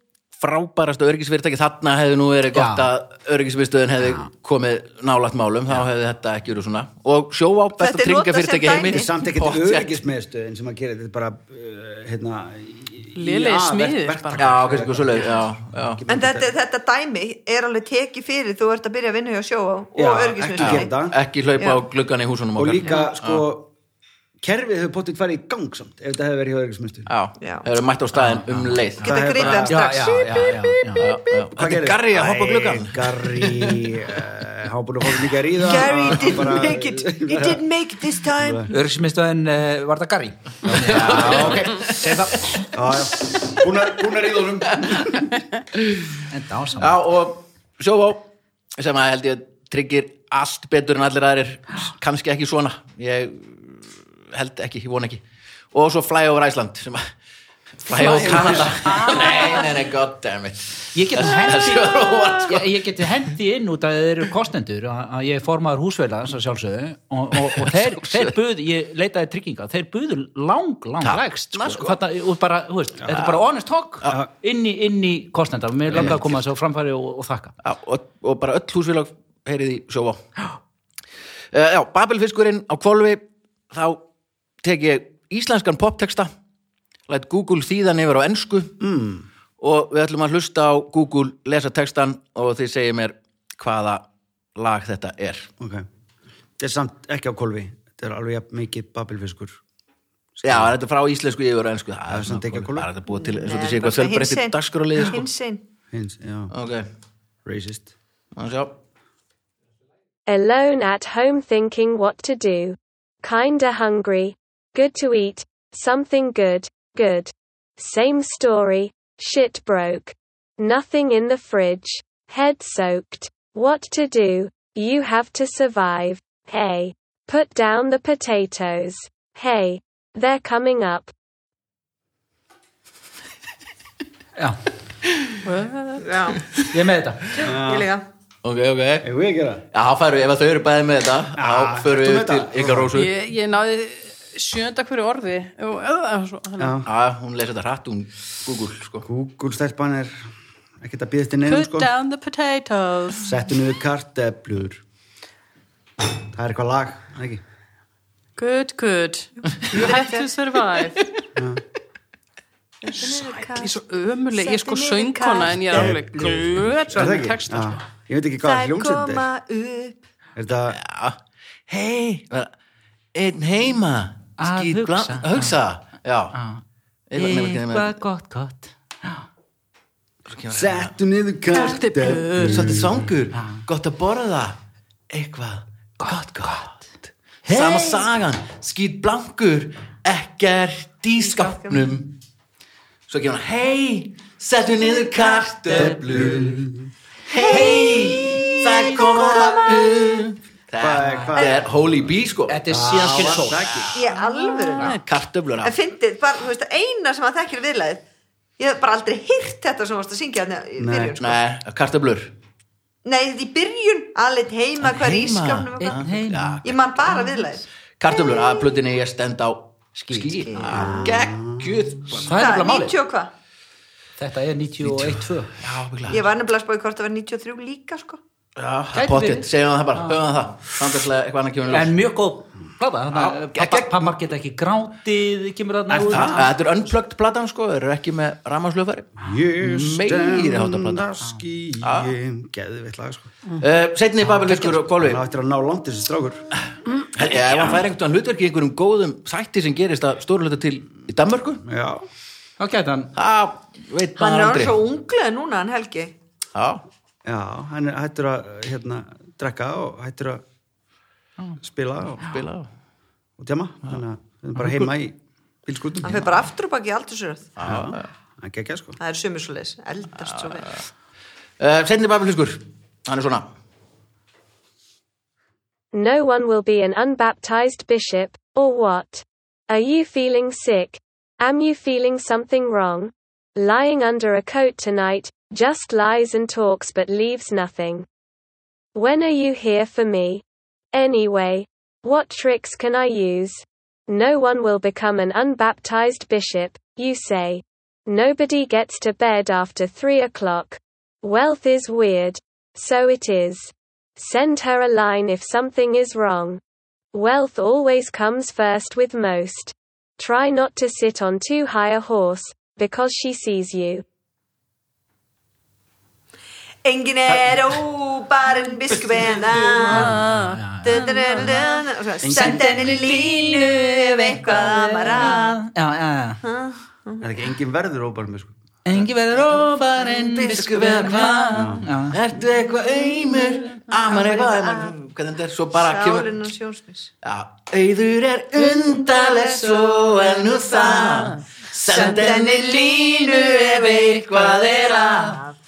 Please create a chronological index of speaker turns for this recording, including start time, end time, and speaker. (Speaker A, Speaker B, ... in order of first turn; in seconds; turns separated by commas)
Speaker A: 0.4-10.0, Speaker B: 2.5-2.9, Speaker C: 7.8-9.1, Speaker D: 8.9-16.5, Speaker E: 13.2-14.5, Speaker A: 14.4-16.0, Speaker C: 16.1-20.9, Speaker D: 19.9-21.2, Speaker A: 20.6-23.4, Speaker C: 21.6-21.8, Speaker D: 22.6-23.7, Speaker D: 24.4-27.1, Speaker A: 27.1-29.8, Speaker C: 27.4-27.7, Speaker B: 28.1-28.8, Speaker C: 29.0-30.8, Speaker D: 29.0-29.9, Speaker B: 29.7-31.1, Speaker A: 31.0-34.0, Speaker D: 31.6-37.6, Speaker C: 35.6-38.7, Speaker D: 38.3-38.7, Speaker B: 38.7-42.4, Speaker D: 40.6-45.3, Speaker A: 40.9-42.0, Speaker B: 46.3-47.0, Speaker A: 46.8-57.1, Speaker A: 57.9-62.7, Speaker D: 57.9-58.8, Speaker B: 60.9-77.5, Speaker A: 67.6-68.3, Speaker A: 71.0-72.0, Speaker A: 73.1-73.4, Speaker A: 75.9-76.2, Speaker A: 77.6-80.2, Speaker A: 81.5-84.0, Speaker A: 84.6-86.3, Speaker A: 87.1-88.8, Speaker D: 88.8-89.3, Speaker A: 89.6-95.5, Speaker D: 95.6-95.9, Speaker D: 96.6-99.6, Speaker D: 100.4-100.7, Speaker A: 100.4-105.3, Speaker D: 102.1-102.9, Speaker C: 103.1-105.6, Speaker D: 105.9-106.5, Speaker A: 106.5-106.9, Speaker D: 107.5-107.9, Speaker A: 108.3-108.8, Speaker F: 110.3-131.1, Speaker E: 135.4-136.2, Speaker C: 136.0-136.4, Speaker A: 136.4-136.7, Speaker B: 136.7-137.4, Speaker D: 137.4-137.9, Speaker C: 137.5-138.1, Speaker A: 138.4-139.1, Speaker D: 139.0-139.6, Speaker A: 139.7-143.2, Speaker D: 141.4-142.9, Speaker E: 142.9-146.8, Speaker D: 146.6-146.9, Speaker A: 146.8-149.1, Speaker D: 149.0-150.2, Speaker D: 150.8-151.9, Speaker E: 151.5-153.3, Speaker D: 153.2-154.8, Speaker D: 156.3-157.4, Speaker E: 158.4-161.2, Speaker C: 159.7-160.2, Speaker D: 161.4-161.6, Speaker C: 162.8-163.7, Speaker E: 163.0-167.8, Speaker C: 164.4-166.0, Speaker D: 165.7-169.3, Speaker C: 168.4-170.1, Speaker D: 170.4-170.8, Speaker A: 170.7-172.5, Speaker A: 173.1-176.4, Speaker B: 174.4-175.5, Speaker B: 176.3-176.6, Speaker A: 177.1-177.9, Speaker B: 177.2-179.2, Speaker A: 180.3-180.9, Speaker D: 180.5-183.1, Speaker E: 181.5-182.8, Speaker A: 182.4-184.6, Speaker B: 183.4-183.6, Speaker A: 185.1-186.8, Speaker B: 186.0-186.8, Speaker B: 187.4-188.1, Speaker A: 187.5-192.1, Speaker C: 191.2-191.9, Speaker A: 193.1-196.6, Speaker B: 195.7-196.7, Speaker D: 195.8-196.9, Speaker A: 197.3-204.0, Speaker C: 197.3-200.1, Speaker B: 197.4-198.4, Speaker D: 199.2-199.6, Speaker D: 200.8-202.1, Speaker B: 202.5-203.9, Speaker D: 202.7-204.0, Speaker C: 203.9-205.0, Speaker A: 204.7-205.8, Speaker C: 205.6-208.0, Speaker C: 208.6-211.4, Speaker D: 210.8-211.2, Speaker A: 211.2-212.3, Speaker C: 213.1-216.0, Speaker A: 214.8-216.8, Speaker B: 215.8-216.6, Speaker C: 216.6-218.8, Speaker A: 218.0-222.7, Speaker B: 220.0-220.8, Speaker C: 220.5-221.2, Speaker D: 221.1-221.7, Speaker B: 222.1-223.0, Speaker C: 222.3-223.3, Speaker B: 224.2-225.5, Speaker A: 224.8-226.3, Speaker C: 226.1-228.2, Speaker A: 228.6-232.0, Speaker B: 228.9-230.2, Speaker B: 231.7-236.5, Speaker A: 233.1-234.1, Speaker D: 235.9-236.5, Speaker A: 236.1-241.2, Speaker D: 239.2-243.3, Speaker A: 241.8-242.1, Speaker A: 243.6-245.2, Speaker D: 244.7-246.5, Speaker A: 247.1-251.6, Speaker D: 251.6-252.1, Speaker B: 252.6-253.1, Speaker A: 253.2-254.8, Speaker C: 254.2-256.1, Speaker A: 256.6-256.8, Speaker D: 257.2-260.4, Speaker D: 261.6-262.3, Speaker A: 262.2-262.7, Speaker D: 263.4-266.3, Speaker C: 266.0-267.6, Speaker A: 267.6-268.1, Speaker D: 267.6-269.0, Speaker C: 269.0-270.8, Speaker A: 270.2-270.8, Speaker A: 271.6-273.5, Speaker F: 275.9-288.1, Speaker F: 288.9-306.6, Speaker F: 307.1-314.0, Speaker C: 316.9-320.3, Speaker E: 319.8-321.7, Speaker B: 319.9-321.0, Speaker C: 320.8-325.6, Speaker D: 322.2-322.9, Speaker B: 322.3-326.4, Speaker C: 326.4-327.3, Speaker D: 327.2-328.5, Speaker B: 328.9-332.2, Speaker C: 330.2-330.8, Speaker A: 330.3-336.3, Speaker D: 331.5-331.9, Speaker C: 334.0-334.9, Speaker C: 335.7-337.1, Speaker A: 337.2-345.4, Speaker C: 341.9-344.0, Speaker C: 344.6-345.6